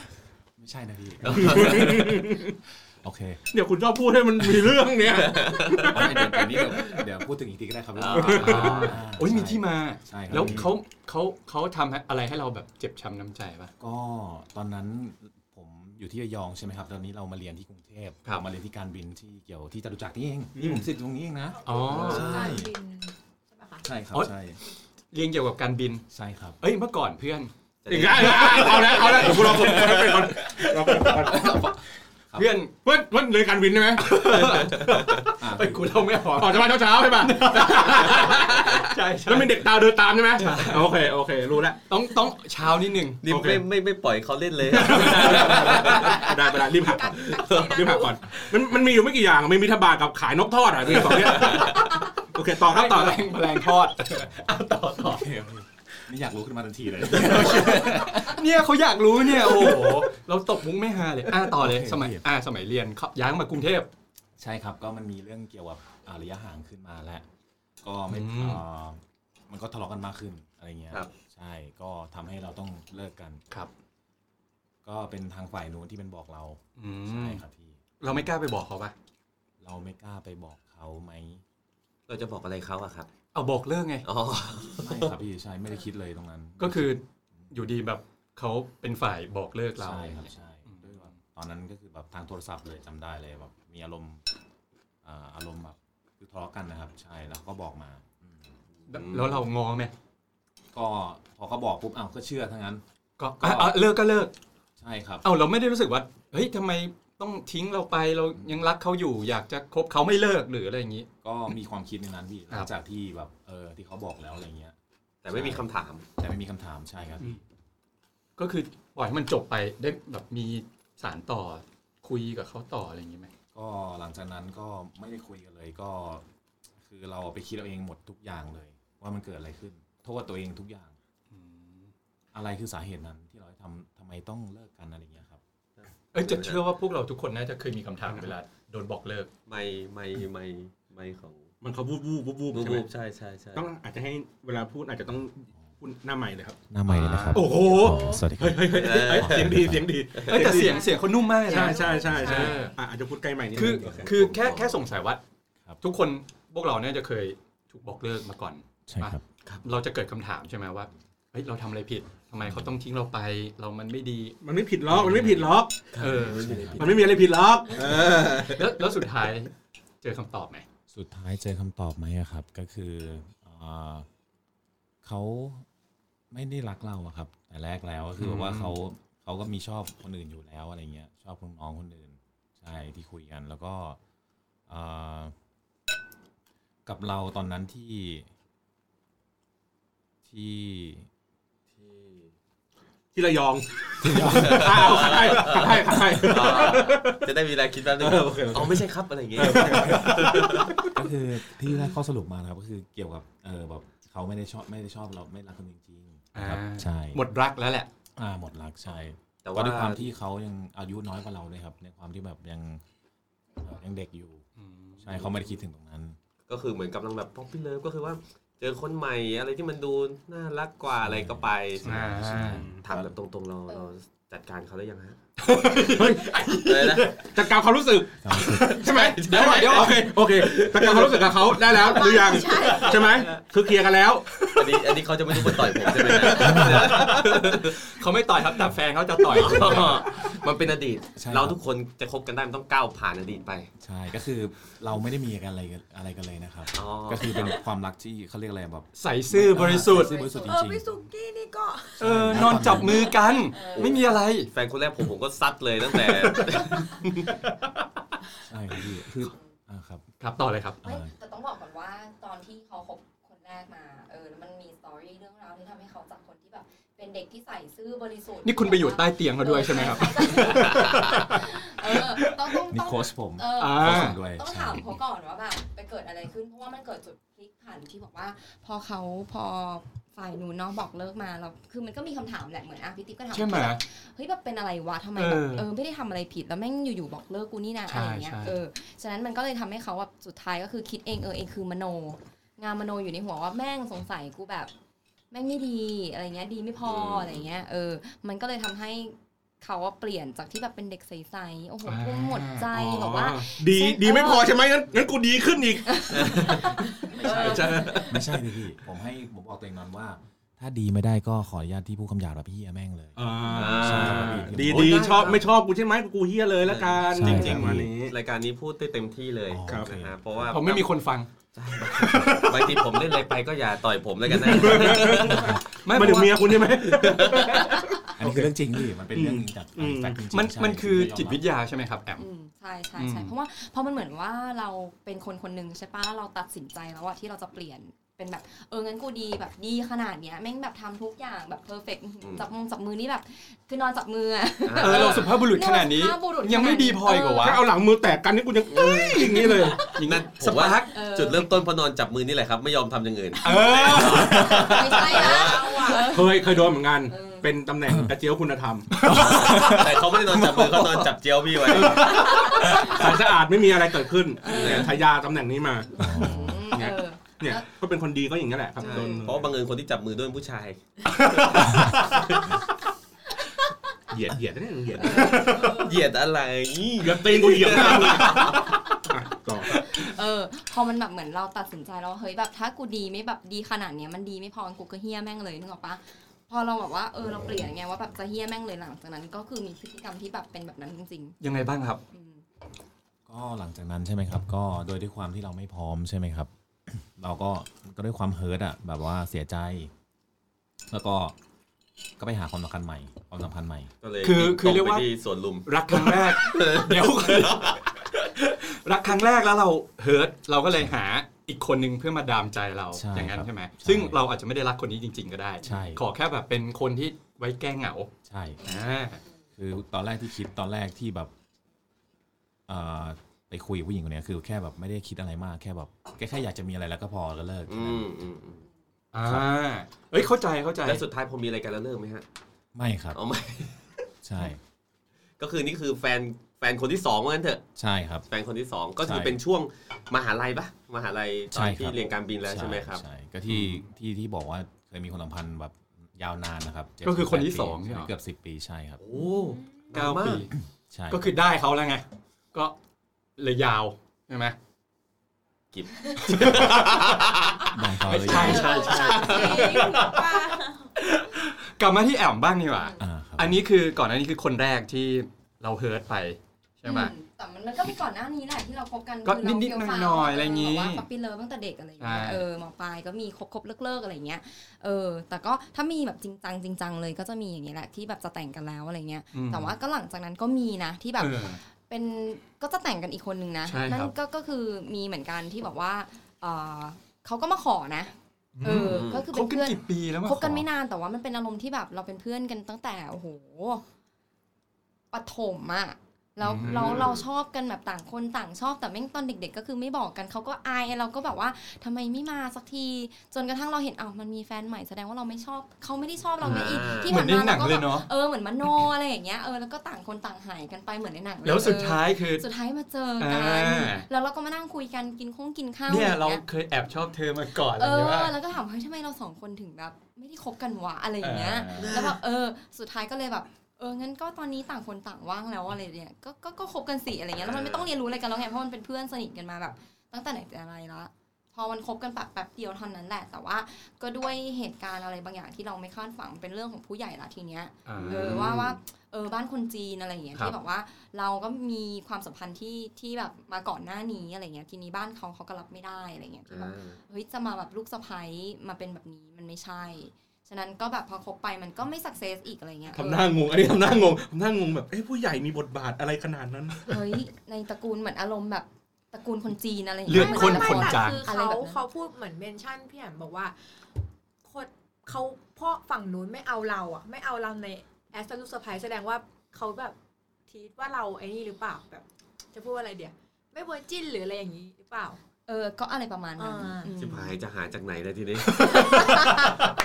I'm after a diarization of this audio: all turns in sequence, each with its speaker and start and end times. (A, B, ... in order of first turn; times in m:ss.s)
0:00.6-0:02.3 A
0:01.2-0:02.2 B
0:01.4-0:02.6 C
0:03.0-0:03.4 A
0:03.5-0:06.6 C
0:05.1-0:07.0 B
0:05.8-0:10.7 A
0:08.0-0:09.0 B
0:08.1-0:08.8 C
0:08.4-0:13.7 D
0:10.4-0:10.6 C
0:13.8-0:22.7 A
0:20.6-0:20.8 C
0:21.6-0:22.5 D
0:21.6-0:23.9 E
0:22.0-0:22.6 B
0:23.8-0:24.6 A
0:25.1-0:26.0 D
0:26.1-0:26.6 A
0:26.6-0:27.5 D
0:27.8-0:29.7 B
0:27.9-0:31.7 C
0:28.3-0:31.8 D
0:32.3-0:32.7 D
0:32.8-0:34.7 C
0:34.0-0:39.6 D
0:34.7-0:35.2 B
0:35.4-0:35.9 A
0:36.4-0:41.8 C
0:40.4-0:40.9 D
0:41.9-0:43.2 D
0:43.2-0:46.3 B
0:43.3-0:43.6 C
0:44.7-0:46.3 D
0:44.8-0:53.2 C
0:46.8-0:48.2 E
0:47.3-0:47.9 B
0:51.1-0:55.3 D
0:51.5-0:51.7 B
0:55.0-0:58.4 A
0:57.1-1:03.9 D
1:01.5-1:02.2 A
1:04.4-1:07.2 A
1:07.8-1:13.4 A
1:08.1-1:08.6 D
1:14.8-1:18.3 A
1:16.8-1:17.4 D
1:18.0-1:18.9 D
1:19.6-1:21.4 A
1:22.1-1:23.1 B
1:23.3-1:24.1 D
1:24.0-1:25.2 B
1:24.8-1:27.5 A
1:26.6-1:31.1 D
1:29.8-1:34.2 A
1:35.0-1:38.5 A
1:38.9-1:39.4 B
1:38.9-1:39.9 D
1:40.7-1:42.8 A
1:43.2-1:44.3 D
1:43.4-1:43.8 A
1:44.8-1:45.2 A
1:45.2-1:51.1 D
1:51.2-1:54.8 A
1:55.2-1:56.1 B
1:55.3-1:55.7 A
1:56.2-1:57.4 A
1:58.4-2:03.3 D
2:03.5-2:06.2 A
2:06.8-2:11.0 A
2:11.3-2:11.9 D
2:12.3-2:15.4 A
2:15.8-2:16.6 B
2:16.1-2:19.3 D
2:19.5-2:21.5 B
2:21.6-2:22.9 C
2:22.5-2:23.7 B
2:23.6-2:26.6 C
2:26.7-2:29.9 A
2:26.9-2:28.0 D
2:27.3-2:30.8 C
2:28.7-2:30.7 B
2:30.3-2:32.8 D
2:30.7-2:32.8 E
2:31.5-2:34.2 C
2:33.6-2:35.2 D
2:34.1-2:34.8 B
2:35.8-2:44.4 D
2:38.9-2:39.2 A
2:42.4-2:42.8 A
2:44.4-2:45.9 C
2:44.9-2:47.0 D
2:45.9-2:47.1 B
2:46.0-2:46.9 A
2:46.8-2:48.7 C
2:48.4-2:50.7 D
2:50.9-2:54.1 A
2:55.0-2:55.6 A
2:56.3-3:04.0 A
2:58.2-2:58.8 D
3:04.7-3:05.3 A
3:06.9-3:08.3 A
3:10.3-3:11.1 A
3:11.7-3:12.3 B
3:13.1-3:17.3 C
3:14.0-3:15.3 A
3:14.2-3:20.8 B
3:18.0-3:20.9 C
3:19.7-3:27.2 A
3:26.3-3:27.9 D
3:28.2-3:32.8 A
3:29.4-3:30.1 B
3:33.6-3:34.4 A
3:34.6-3:35.3 D
3:35.0-3:36.2 A
3:36.5-3:42.0 B
3:41.0-3:43.1 A
3:41.8-3:42.7 D
3:42.8-3:45.2 B
3:45.4-3:47.3 D
3:45.9-3:46.4 C
3:46.6-3:47.2 B
3:47.3-3:54.4 C
3:48.2-3:48.8 A
3:48.3-3:50.0 D
3:48.8-3:51.4 B
3:51.7-3:53.3 E
3:52.6-3:53.1 D
3:54.4-3:54.8 D
3:54.6-3:57.9 B
3:55.3-3:55.8 D
3:56.0-3:56.6 C
3:56.3-3:57.1 A
3:56.4-4:00.2 D
3:59.3-4:03.7 B
4:01.2-4:01.6 A
4:03.8-4:11.0 A
4:06.7-4:07.6 B
4:09.0-4:10.2 D
4:09.9-4:12.0 E
4:10.2-4:10.4 F
4:12.0-4:13.2 A
4:12.0-4:14.5 D
4:12.8-4:13.4 E
4:13.5-4:14.0 F
4:13.8-4:17.4 B
4:16.0-4:17.8 D
4:18.4-4:20.0 A
4:20.2-4:20.8 D
4:20.8-4:21.1 A
4:20.8-4:54.7 F
4:28.4-4:32.3 D
4:30.7-4:31.1 B
4:32.7-4:35.0 A
4:33.6-4:34.2 D
4:43.3-4:43.8 D
4:45.2-4:45.7 D
4:47.9-4:48.6 D
4:55.3-5:04.5 F
4:56.8-4:57.4 B
5:01.8-5:02.7 D
5:02.7-5:08.2 C
5:05.9-5:08.1 F
5:06.1-5:06.7 B
5:07.3-5:15.3 A
5:13.2-5:18.2 C
5:13.5-5:15.5 B
5:14.0-5:14.3 D
5:16.6-5:20.9 B
5:17.1-5:17.9 A
5:19.5-5:20.5 A
5:19.7-5:20.0 C
5:20.5-5:21.3 D
5:21.6-5:25.6 B
5:22.0-5:22.8 D
5:24.3-5:28.5 C
5:25.3-5:26.8 D
5:26.8-5:27.7 B
5:28.2-5:31.4 A
5:29.1-5:30.2 C
5:30.3-5:32.3 D
5:32.2-5:47.6 F
5:33.0-5:33.3 D
5:44.6-5:45.3 B
5:44.8-5:47.6 D
5:47.4-5:49.9 C
5:48.7-5:50.0 F
5:48.8-5:49.1 B
5:49.1-5:50.9 D
5:50.0-5:56.0 B
5:50.9-5:51.5 F
5:53.4-5:54.8 D
5:53.4-5:57.5 F
5:53.6-5:54.6 C
5:55.0-5:56.2 E
5:56.0-5:59.0 C
5:57.9-5:58.1 A
5:58.9-6:00.8 D
5:59.1-6:02.3 B
6:01.7-6:05.9 C
6:02.3-6:03.0 F
6:02.4-6:02.9 D
6:04.4-6:05.0 F
6:04.5-6:04.9 B
6:05.9-6:07.6 F
6:06.0-6:06.7 A
6:06.7-6:09.5 C
6:08.8-6:09.3 F
6:08.8-6:11.8 B
6:11.2-6:12.4 D
6:14.1-6:15.8 C
6:15.0-6:15.9 F
6:15.7-6:18.7 B
6:17.0-6:19.8 C
6:18.3-6:18.8 D
6:19.7-6:31.4 F
6:31.4-6:32.0 D
6:32.1-6:32.4 F
6:33.3-6:39.9 A
6:40.9-6:41.4 A
6:42.2-6:43.9 A
6:44.0-6:47.9 B
6:44.2-6:45.1 D
6:45.7-6:58.1 D
6:52.9-6:54.2 A
6:55.6-6:56.0 A
6:58.2-6:58.6 A
6:58.6-6:59.2 D
6:59.6-7:01.3 A
7:02.7-7:08.1 A
7:07.7-7:08.6 B
7:09.1-7:11.0 D
7:10.8-7:12.2 B
7:12.8-7:13.2 A
7:13.1-7:13.9 B
7:14.2-7:14.6 A
7:15.4-7:17.6 B
7:17.8-7:18.3 A
7:18.3-7:23.0 B
7:19.0-7:19.4 A
7:21.5-7:29.0 A
7:23.5-7:23.8 D
7:27.0-7:28.1 D
7:29.0-7:30.5 B
7:29.9-7:30.5 D
7:30.9-7:31.3 A
7:31.1-7:32.8 D
7:33.4-7:34.6 D
7:35.7-7:37.8 B
7:36.2-7:37.3 D
7:37.7-7:38.7 A
7:38.0-7:47.1 D
7:38.3-7:39.8 F
7:38.4-7:40.9 E
7:42.7-7:43.0 F
7:43.0-7:43.6 A
7:46.8-8:13.8 F
7:49.2-7:51.0 D
7:52.0-7:52.4 D
7:59.3-7:59.7 D
8:01.2-8:01.6 D
8:03.7-8:04.1 D
8:08.6-8:10.6 D
8:08.8-8:09.2 B
8:15.1-8:36.4 F
8:16.4-8:17.1 D
8:16.6-8:17.2 B
8:26.4-8:27.2 B
8:26.4-8:28.1 D
8:31.4-8:32.4 D
8:33.2-8:34.1 D
8:35.9-8:38.3 D
8:37.8-9:13.4 F
8:41.2-8:42.1 D
8:41.8-8:42.2 B
8:47.4-8:47.9 B
8:57.9-8:58.5 D
8:58.0-8:58.8 B
9:06.5-9:07.0 B
9:12.9-9:17.0 C
9:16.9-9:21.8 F
9:20.1-9:21.3 D
9:20.1-9:23.6 E
9:24.4-9:30.0 E
9:30.5-9:35.2 E
9:35.5-9:37.4 F
9:36.4-9:36.9 E
9:37.0-9:39.1 B
9:38.6-9:39.3 C